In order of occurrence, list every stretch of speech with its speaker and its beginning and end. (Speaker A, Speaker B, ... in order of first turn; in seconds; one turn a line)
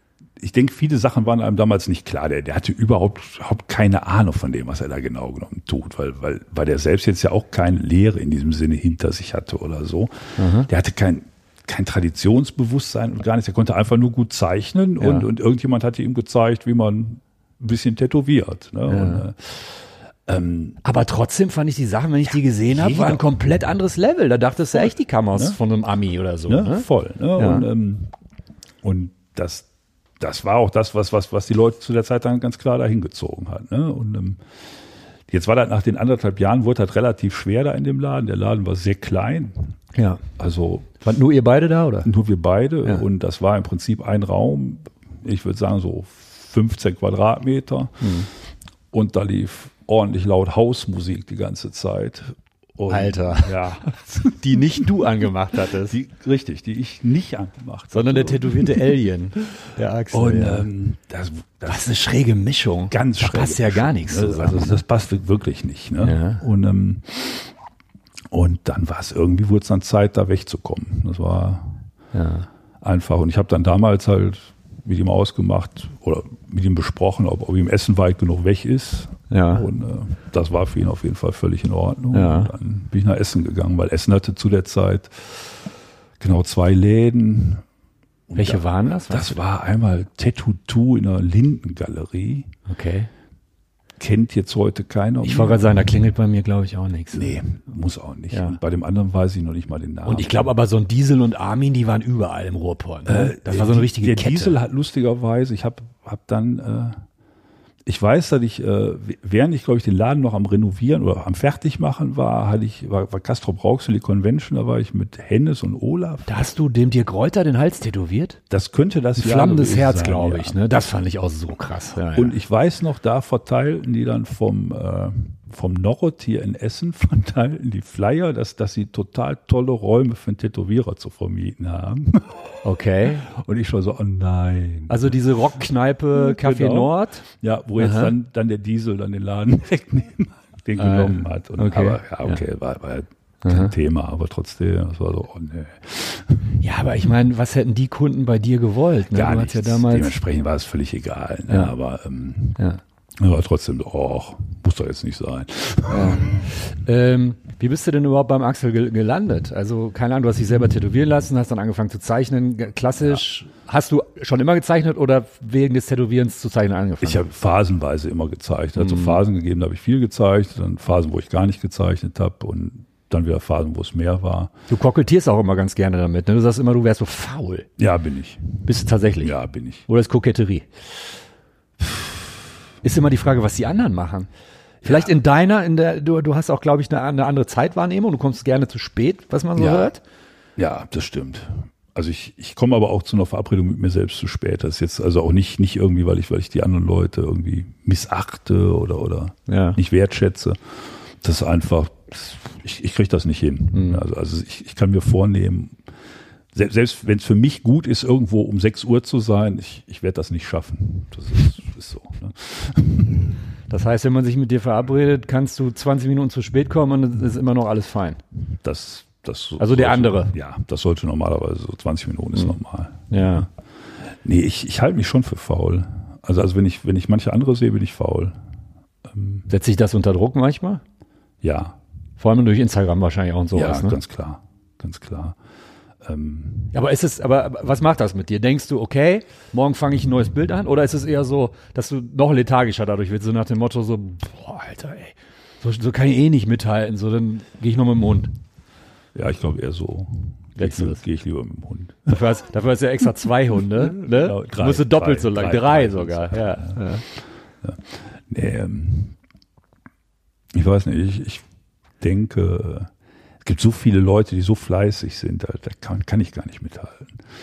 Speaker A: 0.4-20.8
Speaker B: 10.4-10.7
Speaker B: 15.0-15.3
Speaker B: 18.9-19.2
Speaker B: 20.8-27.6
Speaker A: 22.7-23.2
Speaker A: 26.5-28.1
Speaker A: 28.8-29.6
Speaker A: 30.2-34.4
Speaker A: 35.3-39.7
Speaker B: 39.9-40.2
Speaker A: 40.4-41.0
Speaker B: 41.0-42.1
Speaker A: 42.0-48.1
Speaker B: 48.0-48.3
Speaker A: 48.9-54.9
Speaker B: 52.9-53.5
Speaker B: 54.4-56.0
Speaker A: 55.8-58.9
Speaker B: 57.9-60.7
Speaker A: 60.1-61.9
Speaker B: 61.6-64.8
Speaker A: 62.9-67.5
Speaker B: 66.0-66.4
Speaker A: 68.3-71.8
Speaker B: 72.1-72.5
Speaker A: 72.8-85.5
Speaker B: 79.3-79.7
Speaker B: 82.1-82.5
Speaker A: 86.2-87.6
Speaker A: 88.3-92.5
Speaker B: 88.4-89.3
Speaker B: 92.7-93.1
Speaker A: 94.0-95.6
Speaker B: 95.2-97.4
Speaker A: 97.1-100.5
Speaker B: 98.3-98.6
Speaker B: 100.0-104.6
Speaker A: 103.0-107.0
Speaker A: 107.9-116.3
Speaker B: 116.3-118.4
Speaker A: 118.5-120.6
Speaker B: 119.2-122.4
Speaker A: 122.1-132.6
Speaker B: 132.6-133.3
Speaker A: 133.2-135.2
Speaker B: 134.9-137.2
Speaker A: 136.1-146.5
Speaker B: 137.8-138.1
Speaker B: 140.8-142.4
Speaker B: 143.4-143.7
Speaker B: 146.6-150.1
Speaker A: 149.1-152.6
Speaker A: 153.2-156.5
Speaker B: 155.9-167.2
Speaker A: 167.0-174.5
Speaker B: 168.8-169.2
Speaker B: 174.7-177.7
Speaker A: 177.8-179.9
Speaker B: 178.6-179.3
Speaker B: 179.9-180.7
Speaker B: 182.8-184.3
Speaker A: 184.8-185.1
Speaker B: 184.8-190.0
Speaker A: 189.6-189.9
Speaker A: 190.6-205.8
Speaker B: 199.5-199.8
Speaker B: 203.7-204.0
Speaker A: 206.5-213.3
Speaker B: 213.7-218.2
Speaker A: 218.5-223.4
Speaker B: 219.6-220.3
Speaker B: 223.1-223.5
Speaker A: 224.2-228.4
Speaker A: 229.1-229.5
Speaker B: 229.5-230.8
Speaker A: 231.4-231.8
Speaker B: 232.2-234.0
Speaker A: 233.5-235.4
Speaker A: 236.0-236.7
Speaker B: 236.7-248.3
Speaker A: 249.1-252.2
Speaker B: 250.6-251.0
Speaker B: 252.1-257.0
Speaker A: 253.7-256.8
Speaker A: 257.6-259.1
Speaker A: 260.5-261.4
Speaker A: 262.0-262.9
Speaker A: 263.4-267.2